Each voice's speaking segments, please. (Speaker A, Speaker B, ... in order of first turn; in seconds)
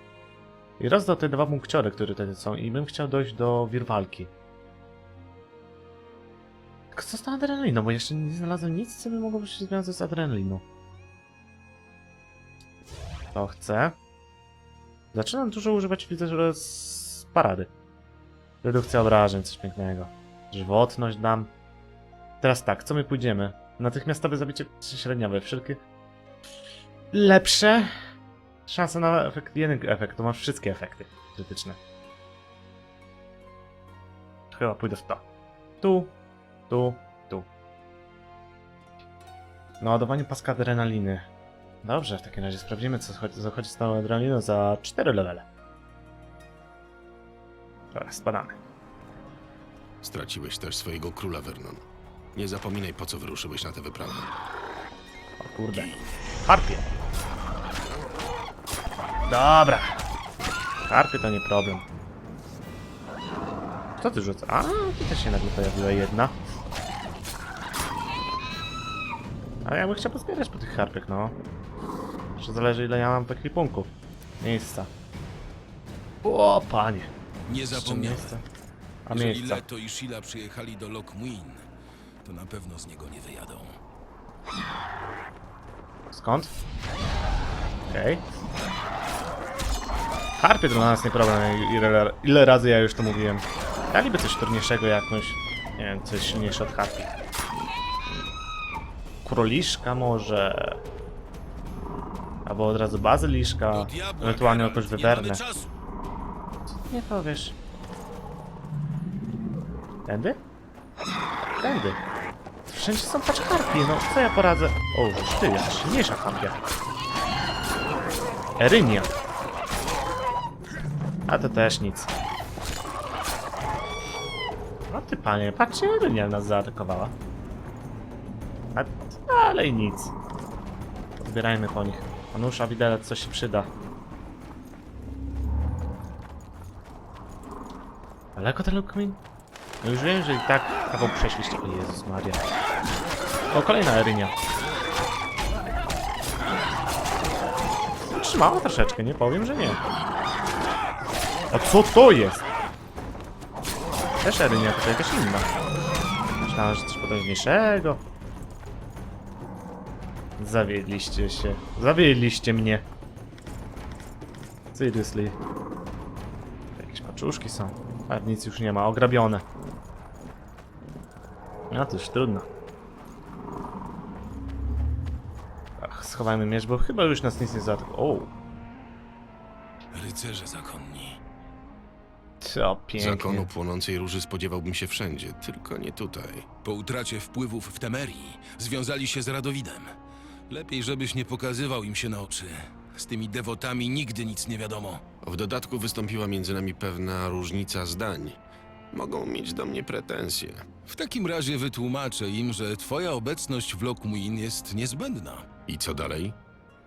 Speaker A: 0.8-4.3, 6.9-10.6, 13.3-13.9, 15.1-17.7, 18.6-21.5, 22.4-25.8, 27.1-27.9, 28.7-31.8, 34.5-35.2, 35.8-36.1, 36.7-37.5, 39.8-41.2, 41.8-45.5, 47.9-48.6, 55.4-56.9, 59.3-60.0, 60.9-61.8, 64.0-66.3, 69.6-71.3, 72.4-74.9, 76.2-77.1, 77.7-78.4, 79.0-79.6, 86.1-86.5, 87.9-88.2, 90.4-97.1, 99.2-100.8, 102.4-105.4, 106.8-107.5, 110.0-110.4, 111.6-112.0, 112.7-116.7, 118.6-119.1, 121.3-122.1, 124.9-127.1, 128.7-130.1, 131.2-133.7, 138.3-139.2, 139.8-142.4, 143.5-144.3, 148.2-149.8, 151.5-152.4, 154.2-155.5, 156.4-158.0, 160.4-162.8, 164.7-165.4, 166.8-169.4, 171.7-172.4, 175.8-178.3, 182.4-183.5
Speaker B: 50.0-51.8, 52.3-54.3, 55.7-56.0, 183.0-186.4, 195.2-198.4, 198.9-200.7, 205.7-206.3
Speaker C: 77.5-78.4, 79.1-81.6, 82.2-83.8, 103.7-105.7, 179.9-181.2, 186.6-189.9, 190.5-195.0, 200.9-205.5